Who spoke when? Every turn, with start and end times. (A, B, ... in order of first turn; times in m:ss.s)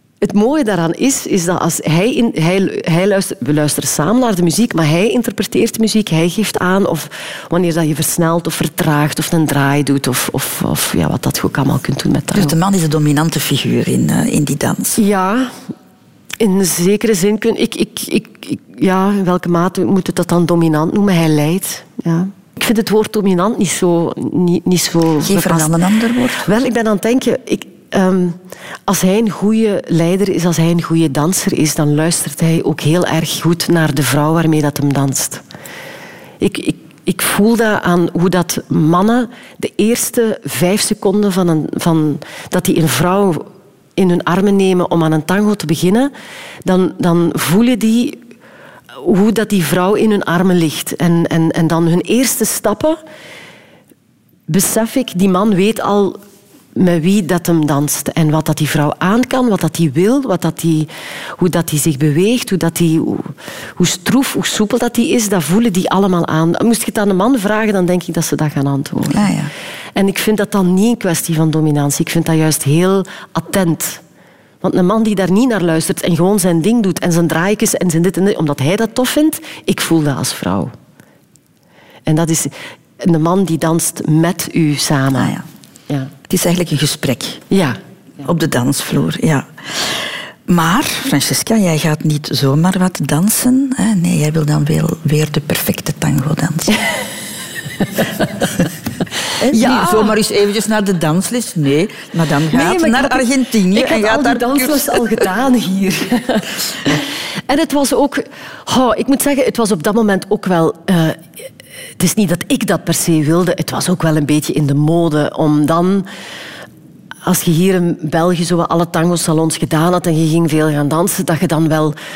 0:00.2-0:12.6 A
0:12.3-0:15.0 B
0:15.0-0:15.6 A
0:16.4-0:25.8 A
0:25.2-0:26.5 B
0:26.4-0:35.4 A
0:36.4-0:46.1 A
0:46.6-0:48.2 A
0:49.0-0:53.0 A
0:54.5-0:56.2 A
0:56.8-1:09.3 A
1:09.1-1:09.5 B
1:10.0-1:14.0 A
1:14.6-1:20.7 A
1:22.1-1:25.4 A
1:25.1-1:25.5 B
1:26.3-1:27.4 B
1:27.5-1:27.8 A
1:28.2-1:36.8 B
1:39.4-1:45.2 B
1:39.5-1:40.2 A
1:42.5-1:51.2 A
1:52.0-1:56.1 A
1:57.2-2:02.0 A